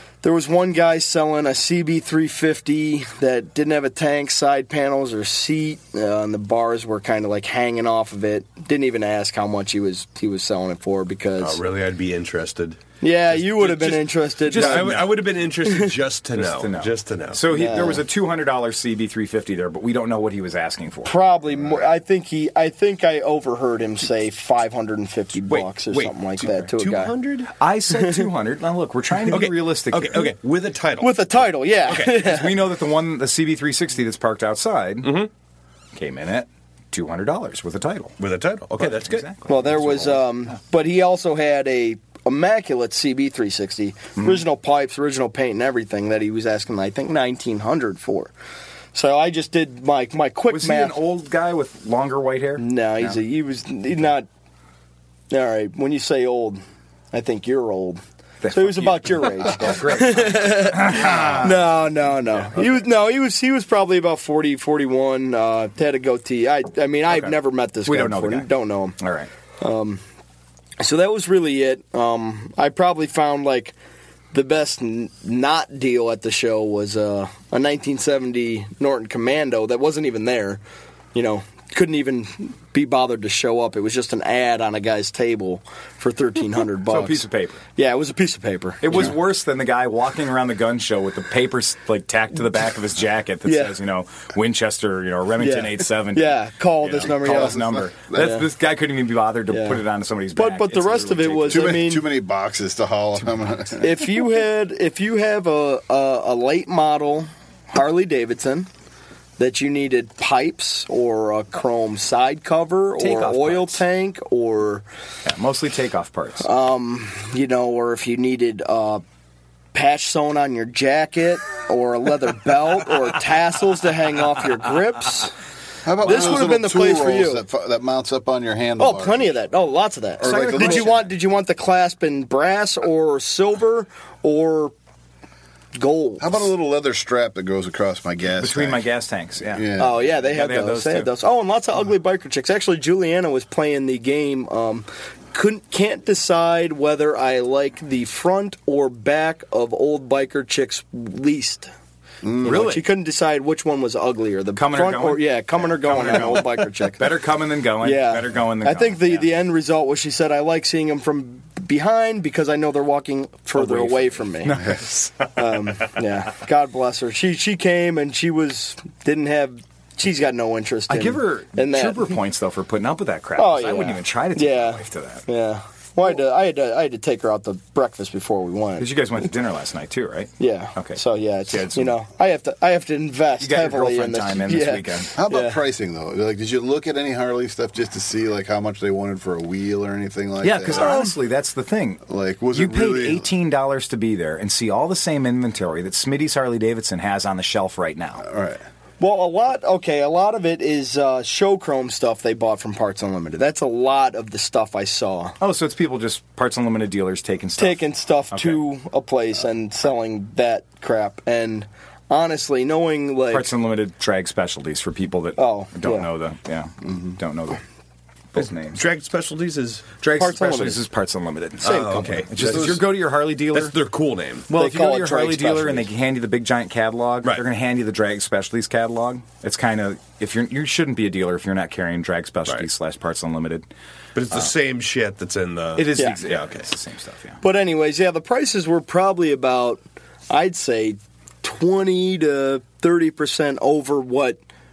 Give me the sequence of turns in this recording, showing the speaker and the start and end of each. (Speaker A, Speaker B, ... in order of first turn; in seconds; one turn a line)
Speaker A: 0.2-11.6
Speaker B: 11.4-17.4
Speaker A: 13.0-15.0
Speaker C: 13.6-13.9
Speaker C: 14.4-15.1
Speaker A: 15.7-15.9
Speaker C: 16.4-21.9
Speaker A: 17.5-18.0
Speaker A: 21.0-27.1
Speaker B: 25.5-27.5
Speaker C: 27.5-30.3
Speaker A: 27.9-28.2
Speaker B: 29.3-31.3
Speaker A: 31.0-32.6
Speaker C: 31.9-35.3
Speaker B: 35.0-35.3
Speaker C: 35.9-38.1
Speaker B: 38.2-39.3
Speaker C: 38.8-40.6
Speaker A: 39.5-48.3
Speaker A: 48.9-50.9
Speaker C: 50.5-53.2
Speaker A: 52.6-54.3
Speaker A: 55.3-69.0
Speaker C: 58.4-61.6
Speaker C: 67.8-69.3
Speaker A: 69.6-70.0
Speaker A: 70.8-73.7
Speaker A: 74.3-80.6
Speaker A: 81.1-87.2
Speaker C: 86.9-87.6
Speaker A: 87.8-89.1
Speaker C: 88.8-101.9
Speaker A: 93.4-93.7
Speaker A: 95.4-98.4
Speaker D: 97.2-98.0
Speaker A: 99.5-99.8
Speaker A: 100.3-102.0
Speaker D: 101.5-104.0
Speaker A: 103.8-108.7
Speaker A: 109.4-114.8
Speaker C: 113.0-113.8
Speaker C: 115.2-116.5
Speaker A: 116.4-119.0
Speaker A: 119.7-125.3
Speaker D: 125.8-129.4
Speaker A: 126.0-127.4
Speaker A: 128.8-134.7
Speaker D: 130.2-131.0
Speaker C: 130.2-131.0
Speaker A: 135.7-136.4
Speaker D: 136.2-138.9
Speaker C: 138.4-141.1
Speaker D: 139.5-139.9
Speaker A: 139.8-151.7
Speaker D: 152.2-152.6
Speaker C: 152.4-152.8
Speaker A: 152.4-157.1
Speaker C: 154.5-159.2
Speaker A: 157.8-164.8
Speaker C: 163.5-165.9
Speaker A: 165.3-172.2
Speaker C: 170.9-175.2
Speaker A: 173.3-178.9
Speaker C: 178.8-181.9
Speaker A: 180.4-185.6
Speaker C: 183.4-185.1
Speaker D: 185.1-191.0
Speaker C: 190.4-192.0
Speaker A: 190.7-191.1
Speaker D: 192.1-193.3
Speaker C: 192.5-198.2
Speaker D: 198.2-198.6
Speaker A: 199.0-205.3
Speaker C: 205.4-208.6
Speaker A: 207.6-213.5
Speaker C: 213.3-217.6
Speaker A: 215.4-216.1
Speaker C: 218.3-218.8
Speaker B: 218.4-219.9
Speaker C: 220.0-223.7
Speaker A: 220.2-220.8
Speaker A: 221.6-222.1
Speaker B: 221.6-222.9
Speaker D: 222.4-222.8
Speaker B: 223.5-224.5
Speaker C: 224.5-233.7
Speaker A: 224.5-225.9
Speaker B: 234.1-236.7
Speaker C: 235.8-237.4
Speaker A: 237.4-244.4